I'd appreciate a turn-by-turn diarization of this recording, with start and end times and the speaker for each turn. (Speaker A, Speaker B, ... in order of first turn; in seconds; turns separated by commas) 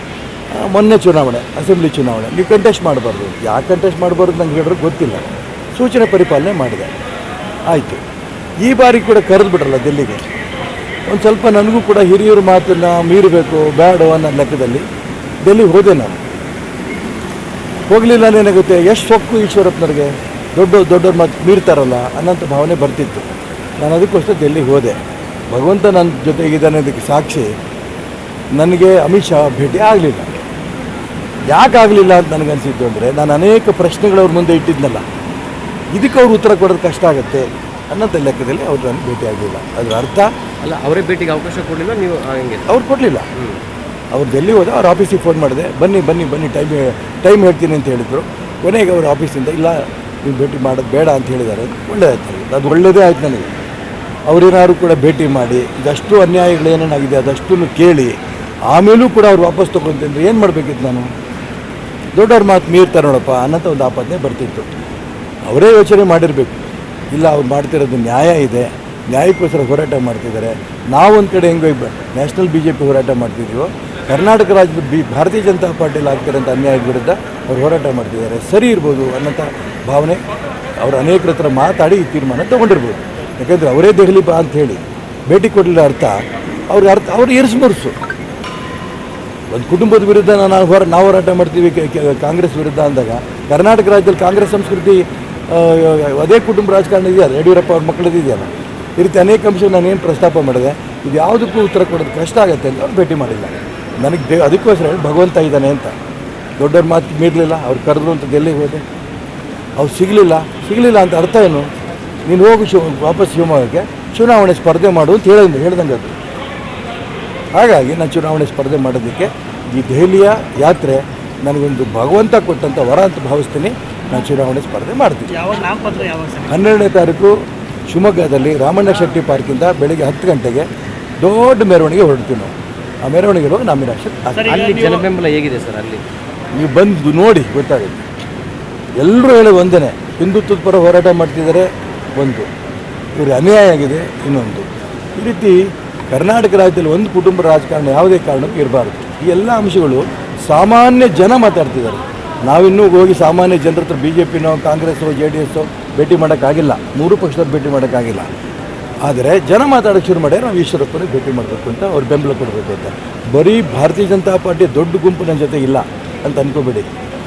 Speaker A: 0.5-6.9, Speaker A: 7.7-8.0, Speaker A: 8.6-10.2, Speaker A: 11.1-14.9, Speaker A: 15.4-16.2, Speaker A: 17.9-23.3, Speaker A: 23.8-25.0, Speaker A: 25.5-27.5, Speaker A: 28.5-30.4, Speaker A: 31.5-35.0, Speaker A: 35.9-40.3, Speaker B: 40.6-42.8, Speaker A: 42.7-43.3, Speaker A: 44.1-53.5, Speaker A: 54.3-58.2, Speaker A: 58.7-61.1, Speaker A: 62.1-64.7, Speaker A: 65.5-66.6, Speaker A: 67.1-80.2, Speaker A: 80.8-87.9, Speaker A: 89.5-105.9, Speaker A: 106.6-108.8, Speaker A: 109.8-111.7, Speaker A: 112.3-116.1, Speaker A: 117.5-125.4, Speaker C: 125.3-126.6, Speaker A: 126.5-127.3, Speaker A: 127.9-130.7, Speaker A: 131.2-134.6, Speaker C: 134.3-135.1, Speaker B: 134.4-136.0, Speaker A: 136.5-138.0, Speaker A: 139.0-142.5, Speaker A: 143.2-158.3, Speaker A: 159.0-166.9